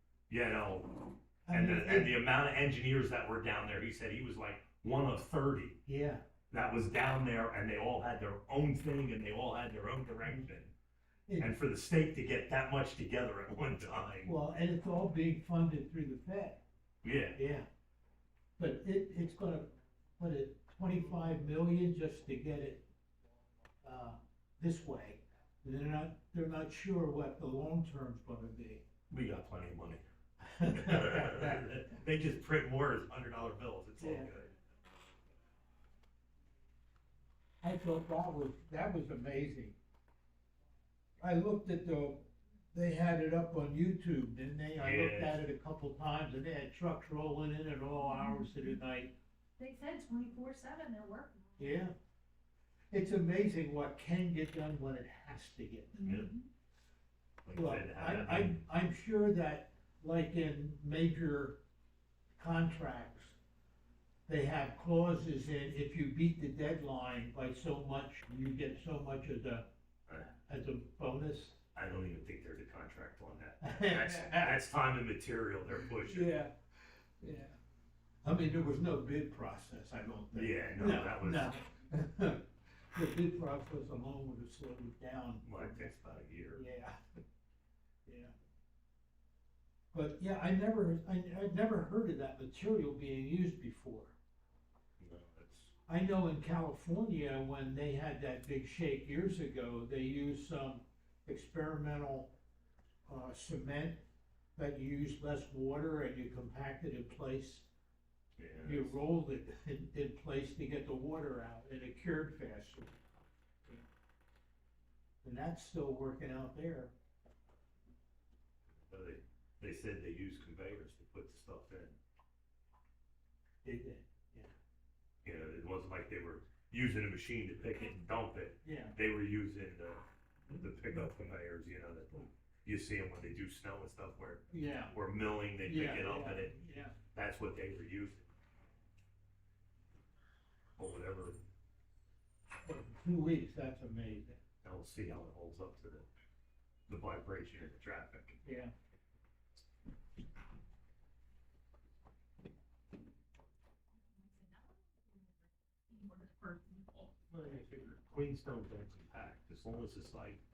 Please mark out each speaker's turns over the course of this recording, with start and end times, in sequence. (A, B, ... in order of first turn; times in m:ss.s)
0:00.3-0:05.8 A
0:01.5-0:02.2 B
0:05.8-0:06.2 B
0:06.5-0:10.7 A
0:11.3-0:11.5 B
0:11.4-0:14.3 A
0:14.2-0:16.6 B
0:17.0-0:17.4 A
0:17.3-0:17.7 B
0:18.6-0:22.9 B
0:23.8-0:28.8 B
0:29.1-0:30.0 A
0:30.4-0:31.9 B
0:30.6-0:34.5 A
0:34.0-0:34.3 B
0:37.6-0:39.8 B
0:41.2-0:49.2 B
0:44.8-0:45.4 A
0:48.0-0:48.7 C
0:49.6-0:51.5 C
0:51.6-0:51.9 B
0:52.9-0:56.0 B
0:56.0-0:56.5 C
0:56.0-0:56.3 A
0:57.4-0:58.6 A
0:57.5-1:01.6 B
1:02.4-1:03.4 B
1:04.3-1:09.7 B
1:10.1-1:10.4 A
1:10.4-1:11.6 B
1:11.8-1:16.4 A
1:13.6-1:14.6 B
1:15.8-1:17.6 B
1:18.2-1:25.9 B
1:20.3-1:21.6 A
1:25.4-1:26.7 A
1:26.5-1:27.0 B
1:28.1-1:28.3 B
1:29.9-1:34.2 B
1:35.0-1:35.7 A
1:35.9-1:42.3 B
1:43.1-1:44.0 B
1:44.6-1:47.7 B
1:48.4-1:49.0 A
1:48.6-1:53.0 B
1:55.2-1:56.9 B
1:58.8-2:02.0 A
2:03.6-2:04.5 B
2:05.2-2:10.0 A
2:08.6-2:09.0 B
2:10.6-2:18.3 A
2:14.5-2:14.9 B
2:15.6-2:16.9 B
2:20.8-2:21.4 A
2:22.6-2:24.4 B
2:24.6-2:26.1 A
2:26.9-2:28.4 A
2:28.4-2:28.7 B
2:34.1-2:37.1 C
2:37.3-2:40.4 A